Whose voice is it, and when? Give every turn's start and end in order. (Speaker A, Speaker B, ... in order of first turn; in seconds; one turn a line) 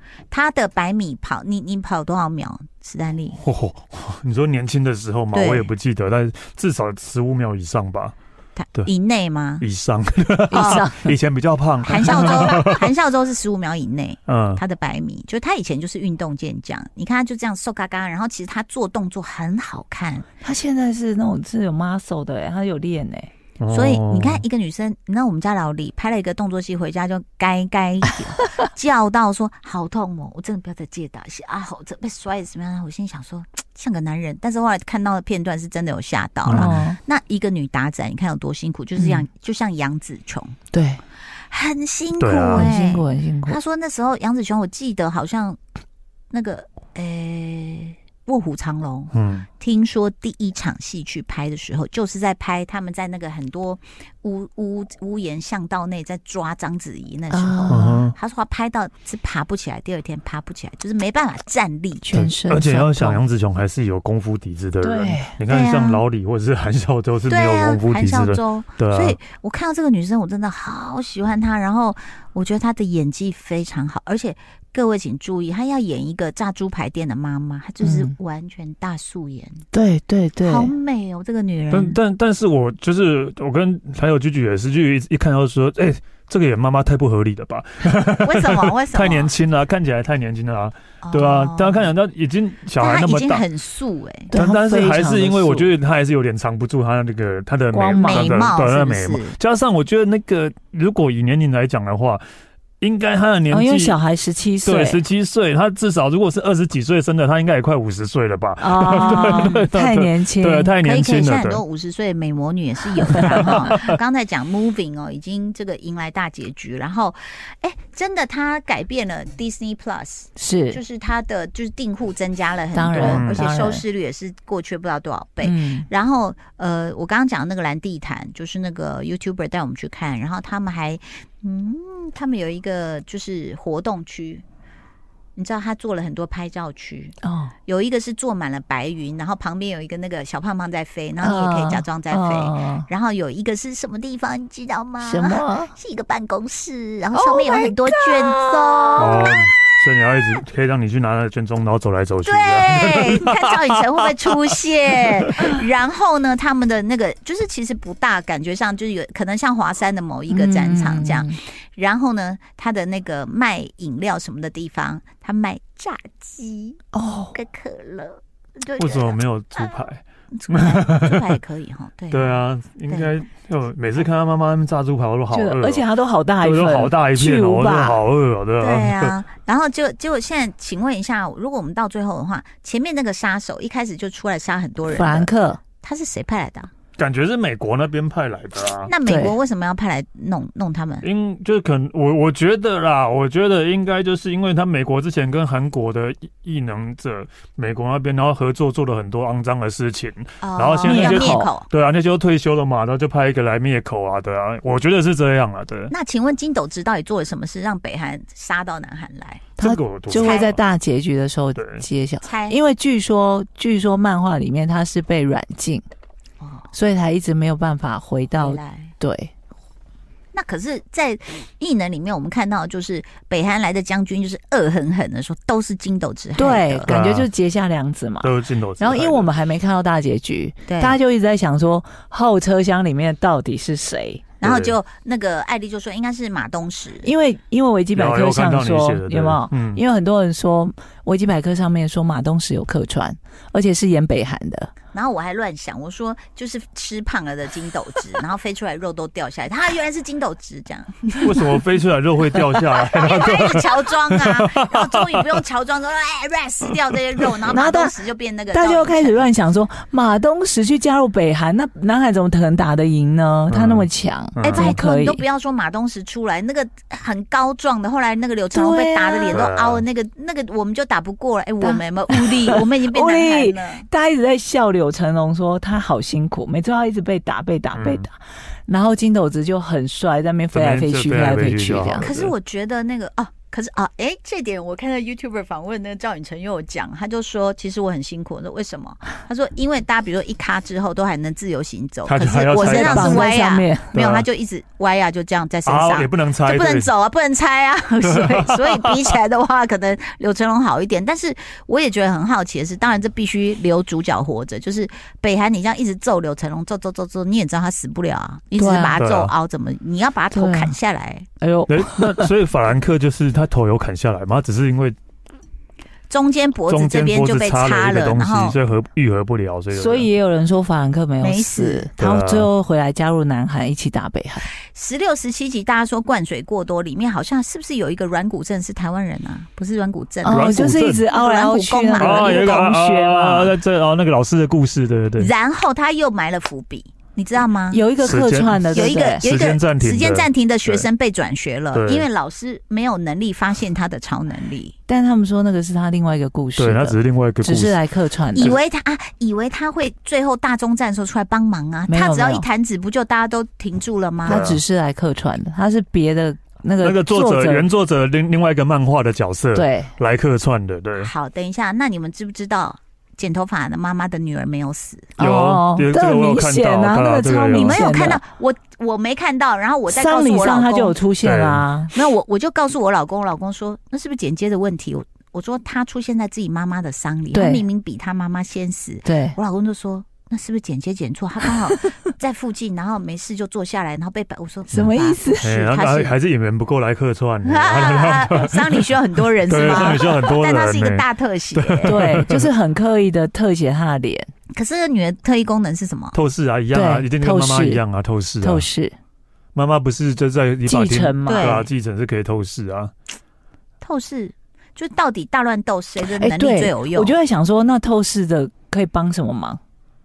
Speaker A: 0.3-3.4
Speaker B: 3.4-8.2
Speaker A: 5.3-5.7
Speaker A: 8.6-9.7
Speaker B: 9.6-12.9
Speaker C: 10.5-11.1
Speaker A: 10.5-10.9
Speaker A: 11.8-20.3
Speaker B: 14.3-14.6
Speaker C: 20.4-23.3
Speaker B: 23.6-24.4
Speaker A: 23.7-40.6
Speaker B: 36.5-36.8
Speaker C: 36.5-37.0
Speaker C: 39.0-39.2
Speaker C: 40.7-41.0
Speaker A: 41.5-45.6
Speaker B: 42.2-42.7
Speaker C: 42.5-43.6
Speaker A: 46.3-62.1
Speaker B: 49.1-49.5
Speaker C: 57.3-58.1
Speaker B: 57.7-58.1
Speaker C: 62.0-63.2
Speaker B: 62.1-69.2
Speaker C: 64.8-65.4
Speaker A: 65.5-66.0
Speaker A: 67.3-79.7
Speaker C: 77.8-78.1
Speaker C: 79.7-80.7
Speaker A: 80.5-82.0
Speaker B: 81.7-93.4
Speaker A: 88.2-89.3
Speaker A: 91.0-91.9
Speaker A: 92.8-94.3
Speaker C: 94.3-95.7
Speaker B: 94.3-102.2
Speaker C: 97.7-98.4
Speaker A: 98.0-99.4
Speaker B: 102.8-104.0
Speaker C: 103.5-105.0
Speaker B: 104.7-111.6
Speaker C: 108.6-110.7
Speaker A: 109.2-109.6
Speaker A: 110.8-134.4
Speaker B: 113.1-114.0
Speaker C: 113.2-113.6
Speaker C: 120.4-120.8
Speaker C: 122.7-123.8
Speaker B: 123.0-123.4
Speaker C: 125.4-125.9
Speaker A: 135.4-137.2
Speaker C: 137.2-137.5
Speaker A: 137.7-149.4
Speaker C: 141.2-142.9
Speaker C: 145.0-145.7
Speaker C: 147.2-149.3
Speaker B: 149.0-153.8
Speaker A: 152.2-166.8
Speaker B: 155.1-155.5
Speaker C: 160.3-161.4
Speaker C: 166.9-167.3
Speaker A: 167.3-173.1
Speaker B: 168.8-171.4
Speaker B: 172.1-175.8
Speaker C: 175.3-178.0
Speaker B: 176.4-179.1
Speaker A: 178.6-186.7
Speaker C: 184.9-185.6
Speaker B: 187.0-188.9
Speaker A: 188.9-191.1
Speaker C: 189.1-189.3
Speaker B: 191.0-205.9
Speaker A: 200.4-201.7
Speaker C: 200.8-201.5
Speaker A: 205.9-209.5
Speaker B: 209.6-210.6
Speaker C: 209.6-215.8
Speaker A: 210.1-210.6
Speaker B: 211.6-211.8
Speaker A: 212.2-212.6
Speaker A: 216.4-216.7
Speaker C: 216.7-219.3
Speaker A: 218.4-218.9
Speaker A: 220.3-226.9
Speaker C: 226.4-234.2
Speaker B: 226.9-227.3
Speaker B: 228.2-229.3
Speaker A: 230.7-231.0
Speaker A: 234.4-237.1
Speaker B: 234.4-234.8
Speaker C: 237.0-244.7
Speaker B: 237.9-239.8
Speaker A: 244.9-251.6
Speaker B: 251.2-255.3
Speaker A: 252.6-259.3
Speaker C: 257.5-257.9
Speaker C: 258.5-265.2
Speaker B: 263.5-264.7
Speaker A: 264.4-273.8
Speaker C: 268.5-269.4
Speaker B: 269.3-269.8
Speaker C: 271.6-282.1
Speaker B: 277.7-278.0
Speaker B: 280.5-282.3
Speaker A: 282.0-311.3
Speaker B: 292.1-293.3
Speaker C: 292.6-293.9
Speaker B: 293.9-294.3
Speaker B: 295.7-296.9
Speaker B: 298.0-299.1
Speaker C: 308.6-309.0
Speaker B: 309.0-309.3
Speaker C: 310.3-310.7
Speaker C: 311.4-312.3
Speaker B: 311.7-315.0
Speaker A: 316.1-318.6
Speaker B: 316.7-320.1
Speaker C: 319.7-324.5
Speaker A: 321.2-321.9
Speaker B: 322.0-322.5
Speaker A: 324.6-332.6
Speaker C: 330.2-333.6
Speaker B: 330.3-331.1
Speaker B: 332.0-335.3
Speaker A: 335.2-337.8
Speaker C: 337.7-339.2
Speaker B: 338.0-340.9
Speaker A: 338.7-344.8
Speaker B: 341.7-342.1
Speaker C: 344.9-348.6
Speaker B: 346.6-347.8
Speaker A: 348.4-354.5
Speaker C: 351.9-352.4
Speaker C: 354.3-357.7
Speaker B: 354.3-354.6
Speaker B: 356.8-361.1
Speaker C: 359.6-359.9
Speaker A: 361.0-365.1
Speaker B: 365.2-367.8
Speaker C: 365.2-368.2
Speaker A: 367.5-371.0
Speaker C: 369.9-371.9
Speaker B: 371.2-371.6
Speaker A: 371.9-386.1
Speaker C: 377.3-377.6
Speaker C: 379.1-379.4
Speaker C: 384.7-385.5
Speaker B: 384.7-388.9
Speaker A: 387.4-392.0
Speaker B: 389.5-392.5
Speaker C: 391.8-394.3
Speaker A: 394.5-396.2
Speaker B: 396.1-398.6
Speaker C: 396.7-397.8
Speaker C: 398.4-398.9
Speaker B: 399.6-402.9
Speaker C: 400.7-401.6
Speaker A: 401.3-401.7
Speaker A: 403.8-407.1
Speaker C: 406.1-409.6